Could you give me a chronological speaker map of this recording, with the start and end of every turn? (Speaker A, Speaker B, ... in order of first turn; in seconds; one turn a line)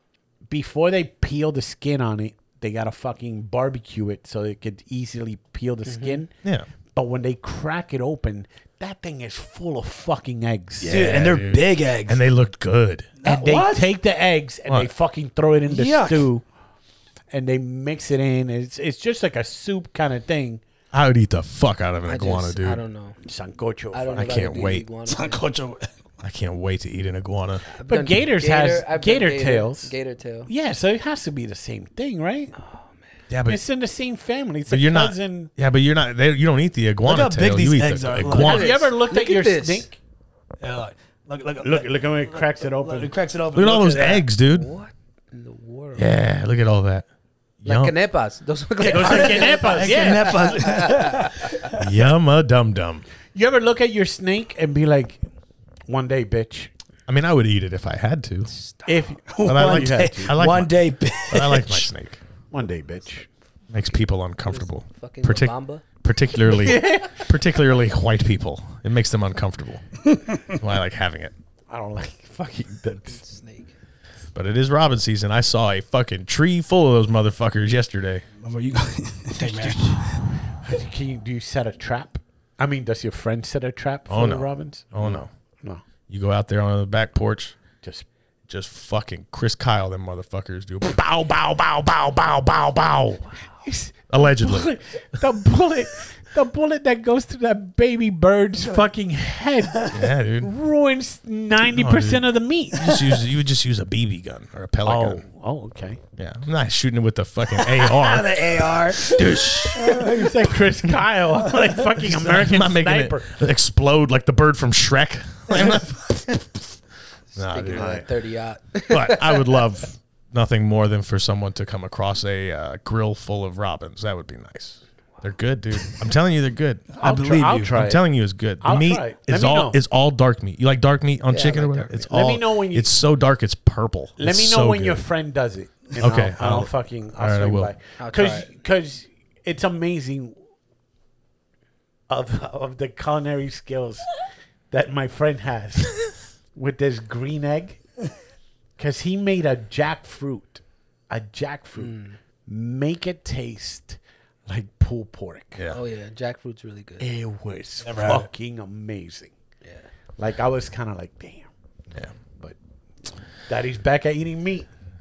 Speaker A: 0.5-6.3
Speaker B: 5.9-6.2
Speaker A: 6.9-11.0
Speaker C: 10.8-13.1
Speaker D: 10.9-12.2
Speaker D: 13.2-13.9
Speaker A: 13.2-16.4
Speaker D: 15.7-16.3
Speaker A: 17.3-20.6
Speaker C: 20.9-22.8
Speaker B: 22.1-23.2
Speaker A: 23.2-24.4
Speaker B: 23.9-25.4
Speaker C: 24.2-24.9
Speaker D: 25.1-25.9
Speaker C: 26.2-27.6
Speaker B: 27.7-30.5
Speaker A: 27.9-29.9
Speaker A: 30.5-32.5
Speaker B: 32.6-33.0
Speaker C: 33.3-33.6
Speaker A: 33.5-35.5
Speaker C: 34.7-38.8
Speaker D: 37.0-38.6
Speaker B: 38.3-39.9
Speaker A: 38.4-40.0
Speaker D: 40.6-44.2
Speaker A: 41.6-43.1
Speaker C: 43.5-44.7
Speaker B: 44.5-46.1
Speaker C: 46.0-47.1
Speaker C: 47.6-48.0
Speaker B: 47.6-51.6
Speaker D: 48.8-51.8
Speaker A: 48.9-50.5
Speaker C: 51.7-53.0
Speaker A: 53.4-55.2
Speaker A: 55.9-56.7
Speaker C: 57.1-58.5
Speaker B: 58.5-59.1
Speaker A: 58.9-60.4
Speaker D: 59.3-61.9
Speaker C: 59.4-62.2
Speaker A: 62.5-63.3
Speaker C: 63.7-69.8
Speaker B: 64.5-65.8
Speaker A: 66.5-67.2
Speaker C: 70.5-71.3
Speaker A: 71.7-73.2
Speaker B: 73.1-73.7
Speaker C: 74.3-78.2
Speaker D: 78.4-80.2
Speaker A: 79.4-85.8
Speaker C: 84.1-85.3
Speaker C: 86.1-87.6
Speaker C: 88.5-93.3
Speaker A: 93.6-103.0
Speaker C: 94.1-94.8
Speaker D: 98.6-98.9
Speaker C: 99.9-100.5
Speaker C: 101.6-105.2
Speaker A: 104.8-106.0
Speaker C: 106.2-110.0
Speaker D: 107.5-111.8
Speaker A: 109.8-113.3
Speaker C: 112.0-116.7
Speaker D: 115.5-115.8
Speaker C: 117.3-118.1
Speaker B: 117.3-119.5
Speaker A: 117.7-118.0
Speaker C: 118.9-126.8
Speaker D: 126.9-127.7
Speaker A: 127.0-128.0
Speaker C: 127.7-135.0
Speaker A: 128.6-129.8
Speaker B: 131.3-132.1
Speaker A: 132.0-132.9
Speaker A: 134.2-140.3
Speaker C: 136.0-137.7
Speaker B: 138.0-138.5
Speaker A: 142.1-144.2
Speaker A: 144.7-147.8
Speaker A: 148.8-155.6
Speaker B: 151.8-152.2
Speaker B: 155.7-157.1
Speaker A: 157.0-159.3
Speaker D: 157.8-158.3
Speaker B: 159.6-159.9
Speaker A: 160.2-161.5
Speaker A: 163.5-164.7